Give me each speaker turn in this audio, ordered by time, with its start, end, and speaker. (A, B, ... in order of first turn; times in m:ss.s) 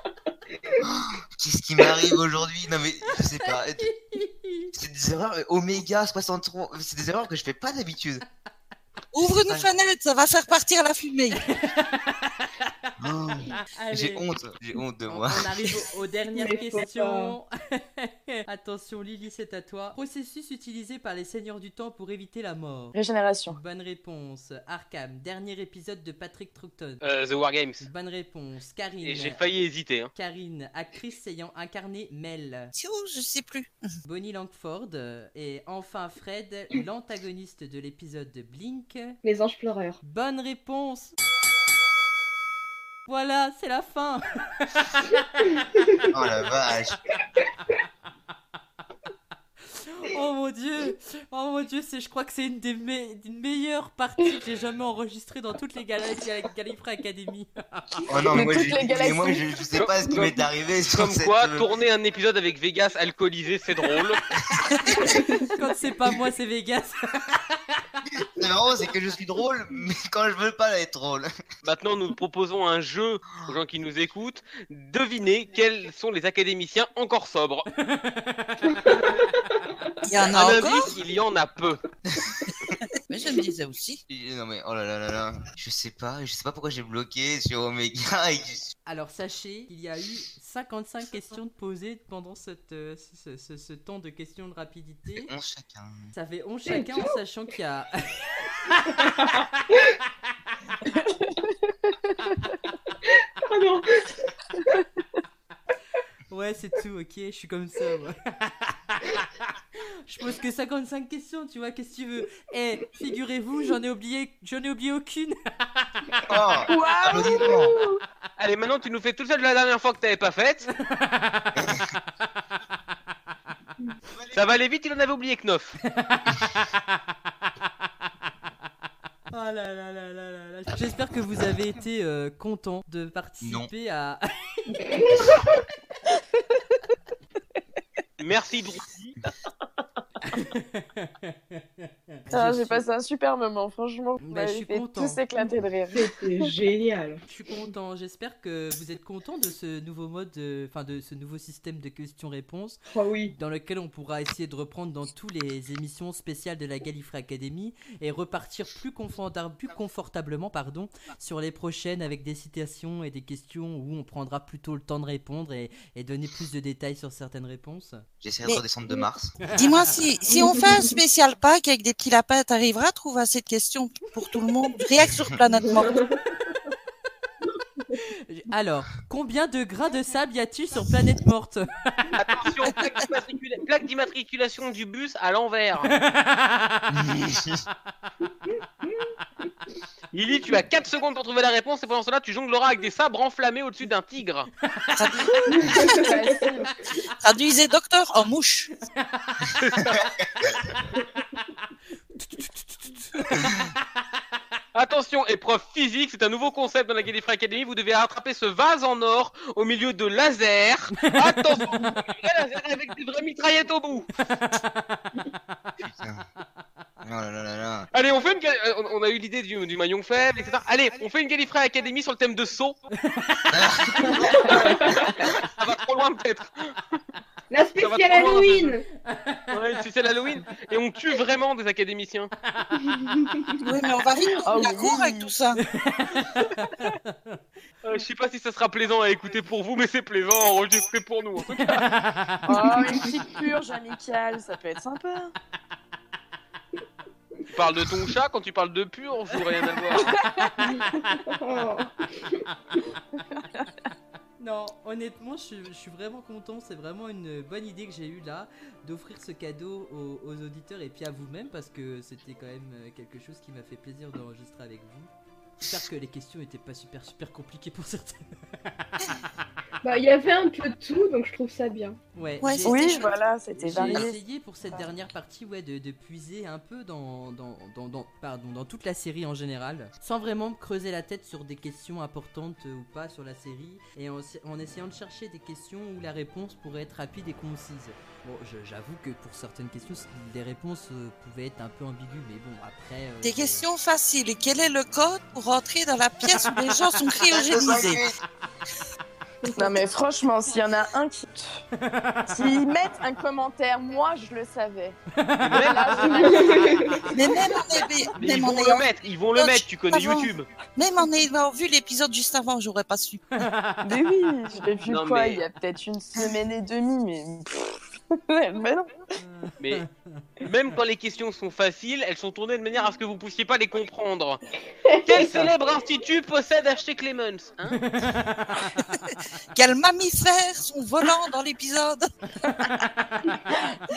0:00.8-0:03.9 A
0:03.1-0:04.7 B
0:04.7-0:08.2 A
0:09.1-0:11.4 C
0:09.5-0:09.8 A
0:11.5-0:12.9 B
0:13.0-0:15.8 A
0:13.5-0:14.2 B
0:15.1-0:23.0 B
0:16.3-0:17.4 D
0:22.9-0:23.6 E
0:23.5-0:27.0 B
0:27.0-0:27.8 F
0:27.8-0:29.4 B
0:29.0-0:30.1 F
0:30.1-0:32.7 B
0:32.8-0:34.0 C
0:34.0-0:39.2 B
0:39.2-0:40.0 D
0:40.0-0:41.2 B
0:43.1-0:45.8 B
0:46.1-0:47.0 A
0:49.7-0:59.0 B
0:58.1-1:01.7 A
0:58.2-0:59.5 E
0:59.7-1:00.3 F
1:00.9-1:04.2 F
1:04.5-1:05.2 A
1:05.0-1:08.0 B
1:08.2-1:11.3 A
1:11.6-1:17.7 F
1:17.9-1:19.1 B
1:18.6-1:19.2 D
1:20.0-1:20.9 C
1:20.3-1:21.8 F
1:22.1-1:22.7 A
1:23.1-1:24.0 C
1:24.1-1:28.7 A
1:28.9-1:35.3 B
1:35.2-1:36.1 A
1:36.1-1:41.0 B
1:36.7-1:37.0 D
1:39.0-1:39.3 D
1:41.1-1:42.1 E
1:42.3-1:42.5 B
1:43.1-1:44.8 D
1:46.3-1:56.2 B
1:56.3-1:57.8 A
1:56.7-1:57.9 E
1:57.7-1:58.0 D
1:58.4-2:00.7 F
2:00.8-2:01.8 B
2:01.6-2:01.8 A
2:04.3-2:05.8 F
2:05.9-2:06.8 B
2:09.3-2:14.8 B
2:13.4-2:13.7 A
2:14.8-2:15.6 D
2:18.2-2:19.1 F
2:20.2-2:22.8 B
2:22.3-2:26.5 E
2:24.2-2:25.2 B
2:25.4-2:27.2 D
2:27.3-2:32.8 B
2:32.9-2:33.4 D
2:33.4-2:48.0 B
2:48.2-2:49.4 A
2:49.5-2:56.0 C
2:50.3-2:50.8 D
2:55.0-2:55.3 A
2:55.8-2:56.2 D
2:57.9-3:02.2 B
3:02.2-3:05.9 F
3:05.9-3:07.0 B
3:06.9-3:07.6 A
3:10.1-3:14.5 F
3:14.7-3:15.3 B
3:15.0-3:15.8 C
3:15.5-3:16.5 D
3:15.8-3:16.7 E
3:17.2-3:18.7 C
3:18.9-3:19.5 B
3:19.6-3:20.0 F
3:19.9-3:20.6 A
3:20.4-3:24.2 B
3:24.8-3:34.1 F
3:31.0-3:31.9 B
3:34.3-3:35.2 B
3:35.8-3:36.2 A
3:37.0-3:37.9 A
3:37.9-3:42.8 F
3:43.0-3:44.6 B
3:43.5-3:44.4 A
3:44.1-3:45.3 D
3:45.4-3:47.0 F
3:47.5-3:48.8 D
3:47.8-3:48.7 F
3:49.0-3:49.6 B
3:49.5-3:52.3 F
3:52.5-3:53.1 B
3:52.8-3:53.6 D
3:53.6-3:55.6 C
3:54.4-3:55.3 E
3:55.6-3:57.4 B
3:57.8-4:01.8 F
4:01.6-4:02.8 B
4:02.5-4:05.3 E
4:07.5-4:10.2 F
4:10.0-4:10.5 E
4:10.2-4:11.7 B
4:10.6-4:12.4 D
4:13.3-4:13.7 E
4:14.4-4:25.1 B
4:25.6-4:29.0 B
4:29.8-4:32.0 D
4:32.1-4:53.6 B
4:32.4-4:33.0 C
4:32.6-4:34.2 E
4:33.8-4:34.0 D
4:53.2-4:58.0 C
4:57.2-4:58.2 A
4:59.4-4:59.8 D
4:59.6-5:01.6 E
5:01.8-5:02.5 B
5:02.3-5:05.0 E
5:05.2-5:05.7 B
5:05.4-5:06.9 F
5:05.6-5:07.0 E
5:06.1-5:07.0 D
5:07.1-5:13.4 C
5:08.2-5:10.5 F
5:13.4-5:14.0 B
5:13.8-5:19.0 E
5:14.8-5:15.4 F
5:19.2-5:20.3 B
5:20.4-5:24.4 F
5:24.8-5:25.5 D
5:25.0-5:27.8 F
5:27.7-5:29.0 B
5:29.5-5:32.1 C
5:32.4-5:33.4 B